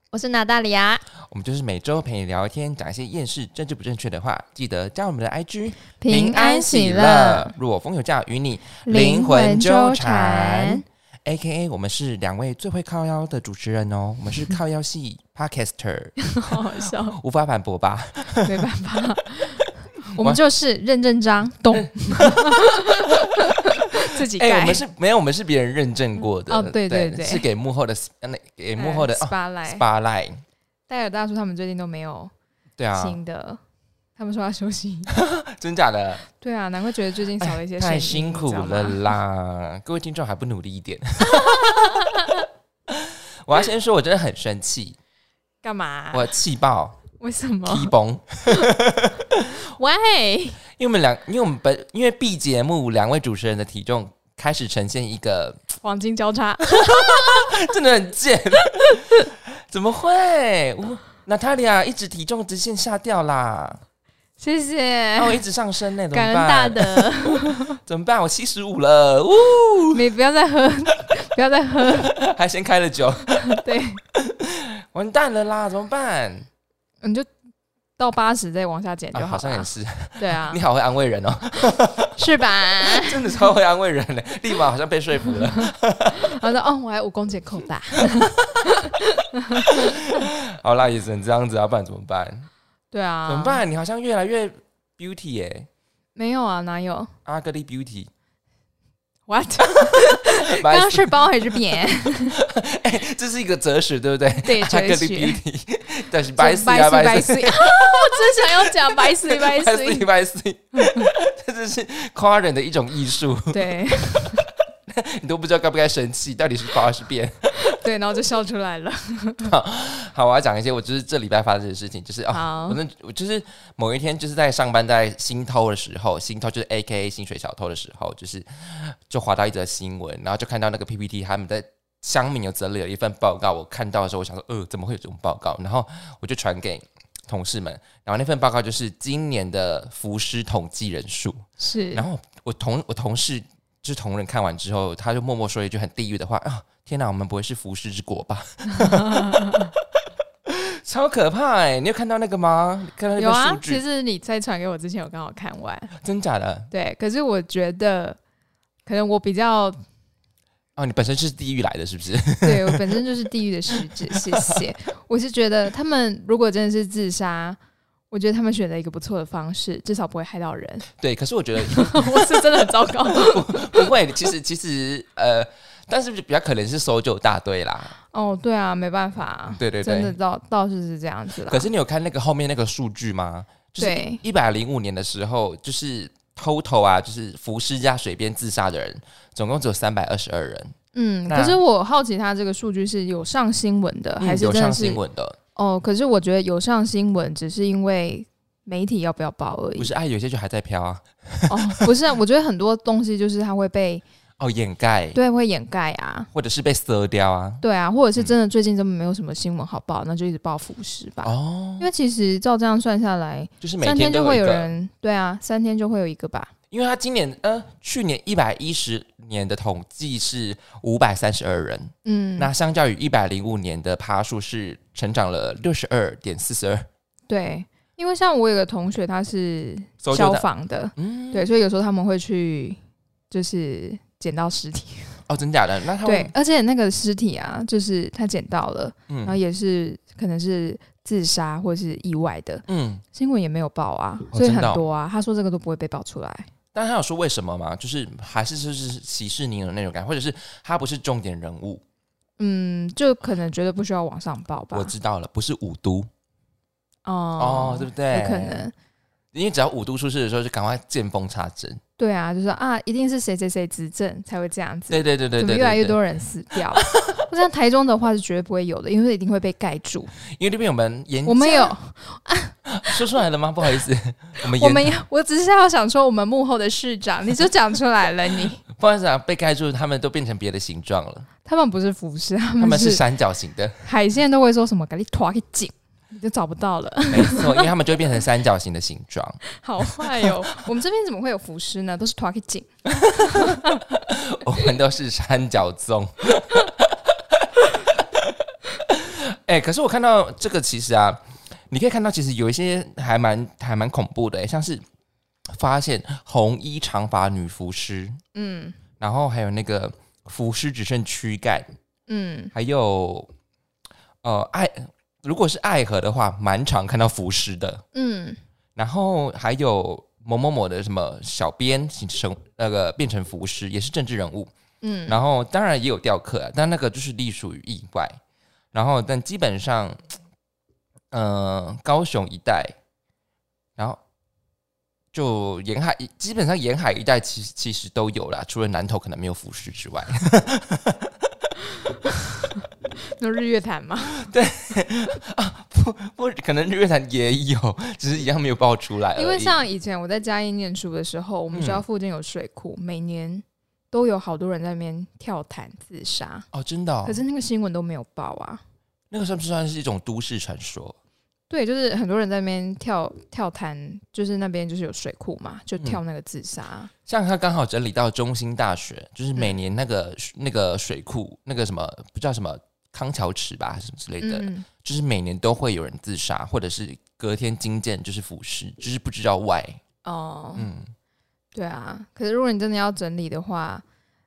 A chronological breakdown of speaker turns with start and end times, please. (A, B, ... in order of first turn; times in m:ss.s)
0:00.1-0:01.0 A
0:01.2-0:18.6 B
0:06.0-0:07.5 A
0:08.8-0:10.8 A
0:16.2-0:17.2 A
0:18.4-0:24.8 A
0:20.1-0:20.4 B
0:21.7-0:30.4 B
0:26.5-0:27.4 A
0:28.8-0:29.8 A
0:30.9-0:32.3 A
0:32.8-0:33.2 B
0:32.9-0:33.6 A
0:34.2-0:35.1 A
0:35.1-0:36.2 B
0:36.3-0:39.1 A
0:37.4-0:42.1 B
0:41.3-0:42.4 A
0:42.9-0:45.0 B
0:45.6-0:46.3 A
0:46.1-0:47.0 B
0:47.2-0:47.9 A
0:47.7-0:49.5 B
0:49.6-0:50.6 A
0:50.8-0:55.6 B
0:55.8-0:57.4 A
0:56.7-1:03.8 B
1:04.4-1:05.4 A
1:05.2-1:10.0 B
1:06.1-1:07.8 A
1:09.9-1:12.1 A
1:11.9-1:13.6 B
1:13.4-1:14.0 A
1:14.1-1:16.4 B
1:17.0-1:17.3 A
1:18.0-1:20.6 A
1:19.1-1:22.2 B
1:22.2-1:23.4 A
1:22.8-1:26.3 B
1:25.3-1:30.2 A
1:28.0-1:28.7 B
1:29.6-1:32.5 B
1:32.9-1:33.6 A
1:33.3-1:35.7 B
1:36.1-1:37.1 A
1:37.2-1:38.1 B
1:39.3-1:42.4 A
1:39.6-1:57.7 B
1:44.4-1:45.4 A
1:46.4-1:50.1 A
1:50.8-1:51.1 A
1:53.5-1:54.4 A
1:57.6-1:59.5 A
1:59.4-2:29.7 B
2:02.3-2:02.8 A
2:21.6-2:22.0 A
2:28.7-2:29.7 A
2:30.5-2:33.8 B
2:33.2-2:35.9 A
2:36.0-2:36.7 B
2:36.7-2:38.2 A
2:38.8-2:39.8 A
2:40.8-2:43.0 B
2:42.4-2:47.6 A
2:44.0-2:44.6 B
2:48.1-2:50.8 A
2:51.0-2:58.0 B
2:51.6-2:53.9 A
2:58.1-3:01.7 A
2:59.5-3:00.1 B
3:01.4-3:10.8 B
3:03.8-3:04.2 A
3:10.9-3:15.0 A
3:11.3-3:11.6 B
3:14.2-3:15.4 B
3:15.6-3:19.9 A
3:19.8-3:21.9 B
3:21.5-3:24.0 A
3:24.4-3:25.2 B
3:25.1-3:26.3 A
3:26.3-3:27.6 B
3:27.6-3:36.5 A
3:31.2-3:31.9 B
3:33.6-3:34.7 B
3:36.7-3:46.9 B
3:42.0-3:42.5 A
3:47.3-3:52.8 A
3:50.0-3:51.5 B
3:53.3-3:55.2 A
3:55.3-3:56.3 B
3:56.0-4:06.5 A
3:59.1-3:59.4 B
4:02.7-4:03.0 B
4:04.3-4:04.8 B
4:06.7-4:11.8 B
4:12.4-4:14.9 A
4:14.7-4:16.1 B
4:17.0-4:18.7 A
4:17.4-4:18.6 B
4:19.3-4:21.8 B
4:22.0-4:30.1 A
4:24.9-4:26.0 B
4:26.8-4:27.2 B
4:30.3-4:31.7 B
4:31.2-4:33.0 A
4:32.7-4:35.0 B
4:34.5-4:38.6 A
4:38.7-4:41.3 B
4:41.4-4:43.0 A
4:42.6-4:43.9 B
4:43.8-4:47.7 A
4:47.1-4:50.4 B
4:49.5-4:52.7 A
4:52.9-5:04.8 B
4:53.2-4:53.8 A
5:05.5-5:08.2 B
5:08.3-5:08.8 A
5:09.0-5:11.7 B
5:12.1-5:12.5 A
5:12.5-5:13.3 B
5:14.2-5:17.8 B
5:17.9-5:18.4 A
5:18.8-5:24.5 B
5:24.8-5:25.2 A
5:25.1-5:28.2 B
5:28.7-5:30.0 B
5:31.1-5:32.7 B
5:35.1-5:41.1 B
5:41.8-5:44.3 A
5:44.1-5:49.5 B
5:49.1-5:56.5 A
5:51.5-5:51.8 B
5:56.5-5:57.2 B
5:57.0-5:58.6 A
5:59.1-6:01.0 B
6:01.5-6:06.9 A
6:07.1-6:19.8 B
6:14.2-6:14.6 A
6:20.0-6:20.7 A
6:20.6-6:20.9 B
6:21.5-6:23.8 A